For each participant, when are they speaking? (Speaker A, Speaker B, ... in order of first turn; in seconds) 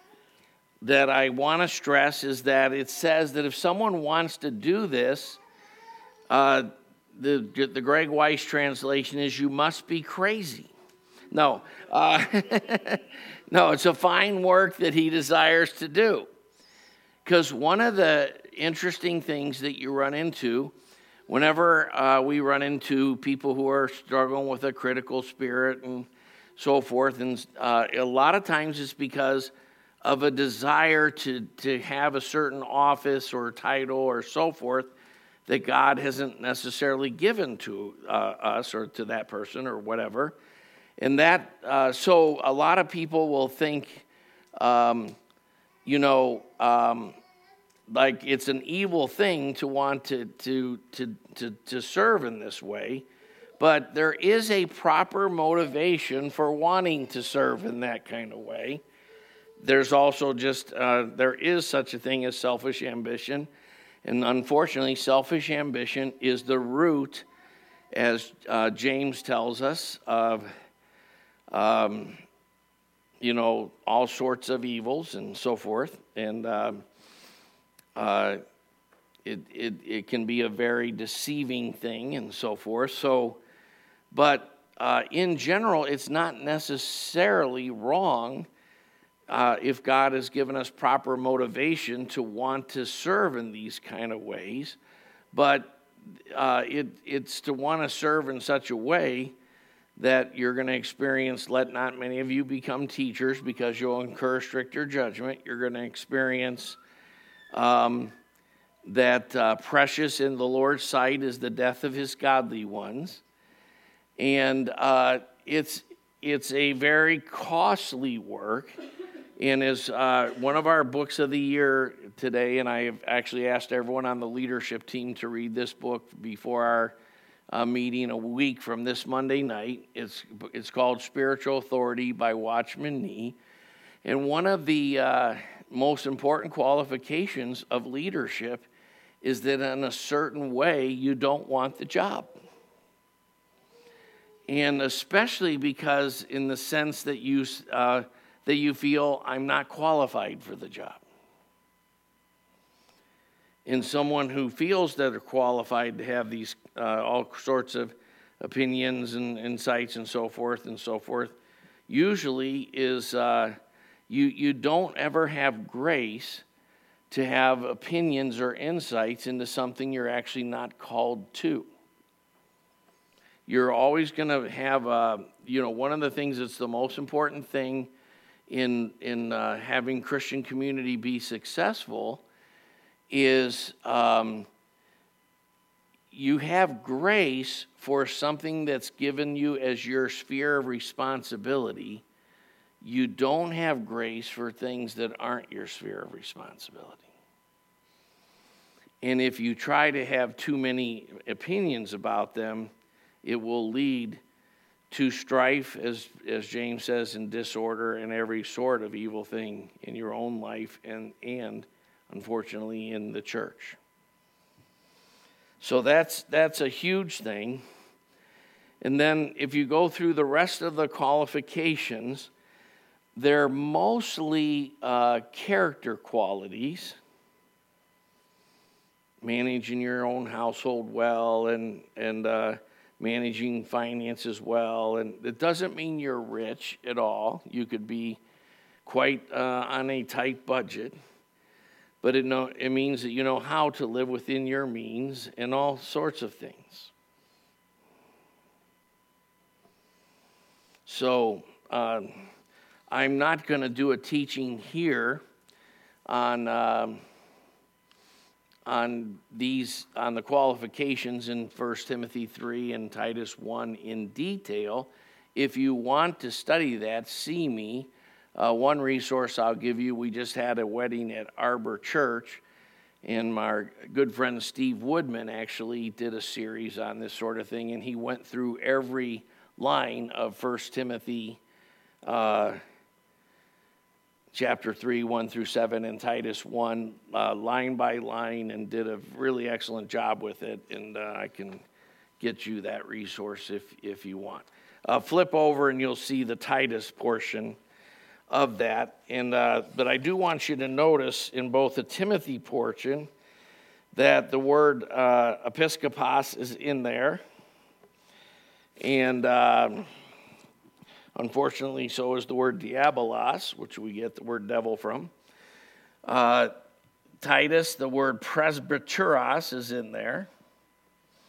Speaker A: 0.8-5.4, 6.3-10.7, 11.3-16.3, 17.2-20.7, 21.3-29.5, 30.0-34.9, 35.5-40.4, 41.0-45.1, 45.9-47.1, 47.9-53.0, 53.6-58.8, 59.6-63.5, 64.0-67.2, 67.9-70.5, 71.5-72.2, 73.2-76.8, 77.9-78.4, 79.2-83.4, 84.1-88.5, 89.3-94.8, 95.3-99.3, 100.0-106.8, 107.5-108.1, 108.8-113.2, 114.2-118.7, 119.4-127.0, 127.5-133.4, 134.0-138.7, 139.2-142.3, 144.5-151.0, 153.6-161.4, 161.9-163.6, 164.1-166.4, 167.1-171.7, 173.5-177.9, 178.5-182.2, 183.1-184.5, 186.1-192.0, 192.8-197.1, 199.0-202.7, 203.2-204.2, 204.9-213.8, 215.6-217.6, 218.8-222.3, 223.2-227.0, 229.2-238.2, 238.8-240.9, 242.0-246.9, 250.8-252.3, 252.9-255.2, 256.1-257.0, 258.6-272.4, 273.0-281.4, 282.0-282.6, 284.3-291.6, 292.2-297.6, 298.3-303.1, 303.9-307.2, 308.8-309.9, 311.1-315.1, 316.0-316.5, 317.2-320.3